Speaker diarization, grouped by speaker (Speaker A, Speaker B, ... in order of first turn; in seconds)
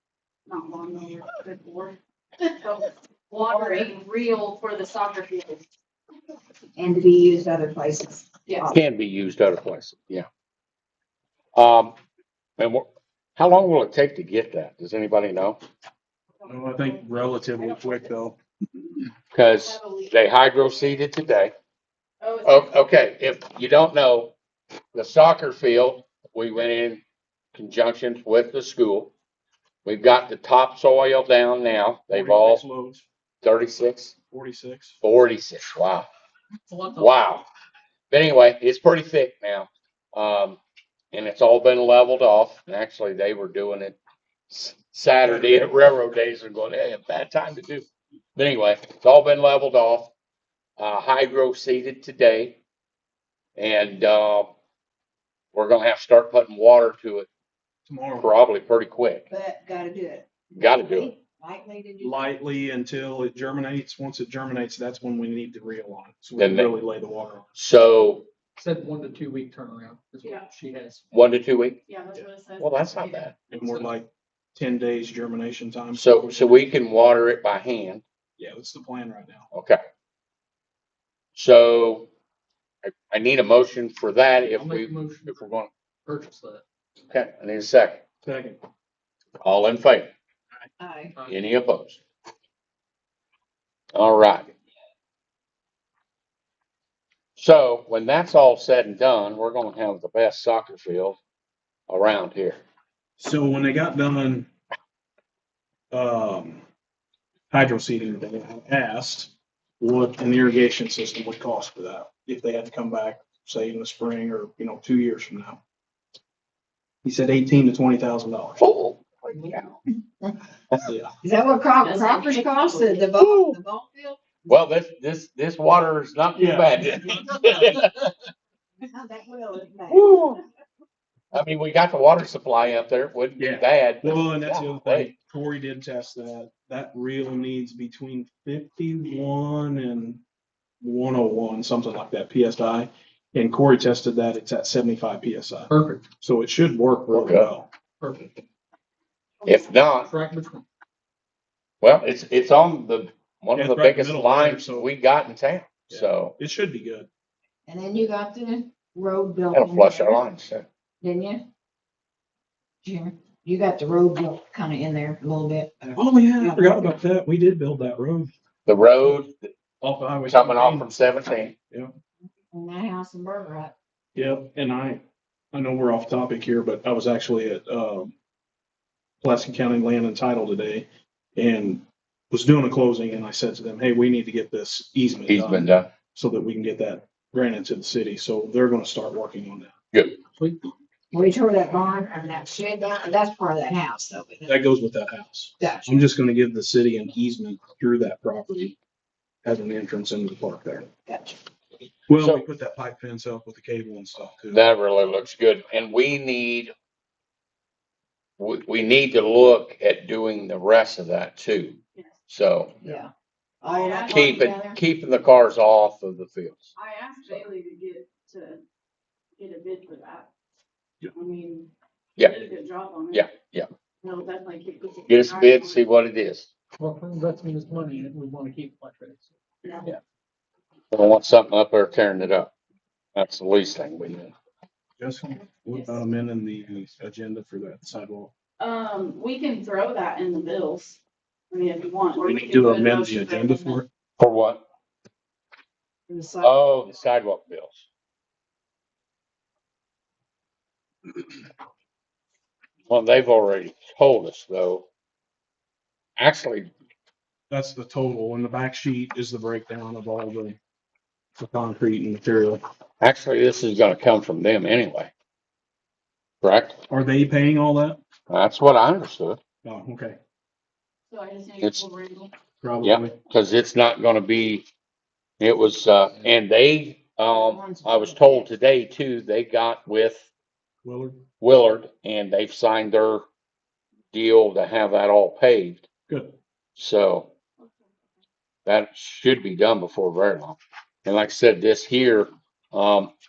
Speaker A: 0.5-5.7, 16.4-17.1, 17.6-18.1, 19.6-20.1, 22.2-22.8, 71.9-73.3, 121.8-123.1, 213.7-214.4, 216.8-218.6, 219.4-220.3, 221.1-223.3, 224.0-225.8, 235.7-236.0, 238.6-243.8, 271.1-272.3
Speaker B: 3.5-3.9, 6.8-8.8, 59.3-62.3, 90.8-91.1, 121.2-124.3, 128.8-130.4, 157.7-160.2, 161.0-161.4, 162.8-166.9, 172.5-173.7, 191.1-194.6, 195.6-195.9, 201.1-201.4, 212.8-213.1, 213.6-214.8, 246.1-246.5, 277.3-278.5
Speaker C: 8.7-10.3, 11.6-12.0, 12.6-15.6, 19.3-21.5, 22.4-24.3, 24.9-27.0, 27.5-29.1, 29.9-32.6, 33.4-34.1, 35.0-36.1, 37.0-37.5, 38.1-40.6, 41.1-44.0, 44.5-50.1, 50.8-52.6, 53.6-54.5, 55.5-57.3, 58.1-59.3, 60.5-61.1, 66.4-66.7, 67.6-68.3, 71.1-71.8, 72.6-73.4, 75.9-78.0, 79.5-79.8, 81.3-82.1, 82.8-85.7, 87.1-88.0, 89.4-90.1, 91.3-92.0, 94.0-94.5, 97.4-101.2, 101.9-102.6, 118.6-119.8, 123.2-123.6, 124.5-128.1, 129.9-130.4, 131.3-135.1, 147.1-147.5, 149.4-150.1, 151.8-156.4, 159.5-160.7, 168.7-169.5, 170.3-171.6, 185.3-185.9, 189.9-190.2, 202.2-202.4, 204.5-206.7, 208.4-213.0, 214.1-216.7, 223.1-223.7, 225.1-226.5, 230.9-232.5, 233.2-234.3, 244.2-244.6, 246.4-247.8, 252.9-254.9, 256.2-256.7, 263.0-265.1, 266.4-266.8, 268.3-269.4, 272.8-274.7, 275.4-280.3, 281.4-283.2, 284.1-285.9, 286.8-287.3, 288.7-293.1
Speaker D: 16.4-18.4, 32.1-33.0, 34.3-35.0, 45.2-45.7, 57.9-58.3, 62.0-67.6, 73.5-76.5, 78.4-79.5, 88.2-88.6, 103.2-104.5, 105.9-106.6, 107.5-115.6, 117.0-118.6, 120.8-121.1, 126.4-127.5, 133.4-140.2, 140.8-147.7, 153.6-154.9, 155.9-157.1, 166.0-168.3, 169.8-170.9, 174.2-178.1, 179.2-189.7, 194.5-198.8, 199.4-200.9, 202.1-204.6, 235.0-238.3, 242.2-243.9, 257.5-260.6, 261.4-262.6, 266.9-268.0, 269.6-270.2, 272.6-273.1, 280.8-281.2, 286.1-286.4
Speaker E: 36.7-37.1, 68.6-71.0, 73.5-73.9, 84.5-85.5, 86.1-86.6, 91.2-91.4, 145.7-146.1, 148.0-148.3, 150.0-150.7, 226.8-229.3